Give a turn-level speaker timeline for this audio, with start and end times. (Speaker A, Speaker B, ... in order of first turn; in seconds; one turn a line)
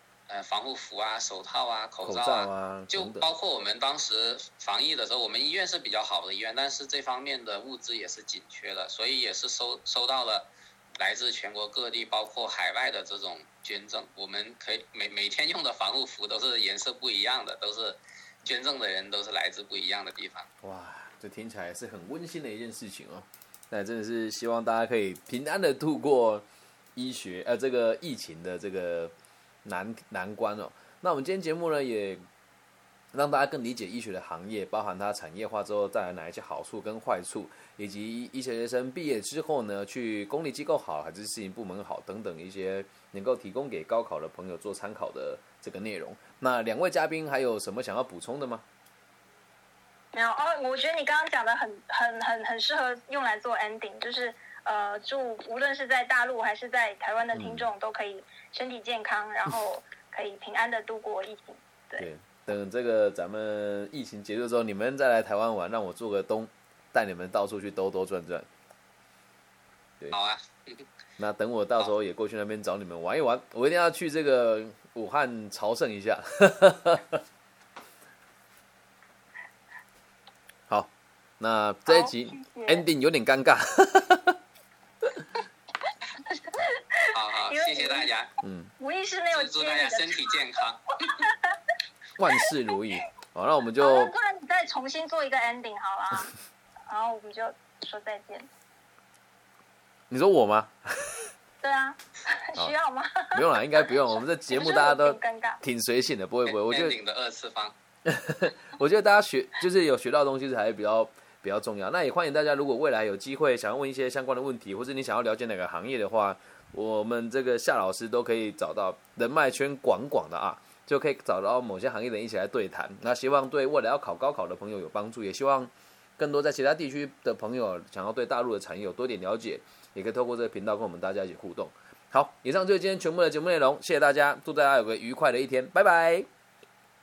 Speaker A: 0.3-20.5
Speaker B: 2.0-3.3
Speaker B: 20.6-32.3
Speaker B: 33.1-48.6
Speaker C: 50.1-62.1
Speaker B: 57.3-57.7
Speaker B: 62.0-68.5
Speaker A: 70.1-70.9
Speaker B: 71.2-77.2
Speaker B: 80.7-84.3
Speaker C: 81.9-82.8
Speaker C: 85.9-88.1
Speaker A: 87.1-88.3
Speaker B: 88.4-88.7
Speaker C: 88.8-90.4
Speaker A: 89.3-91.3
Speaker C: 91.1-91.6
Speaker B: 92.2-94.1
Speaker C: 93.8-96.3
Speaker C: 96.9-98.5
Speaker B: 100.1-101.3
Speaker C: 101.6-105.6
Speaker B: 103.3-107.0
Speaker A: 106.5-107.8
Speaker B: 108.1-136.3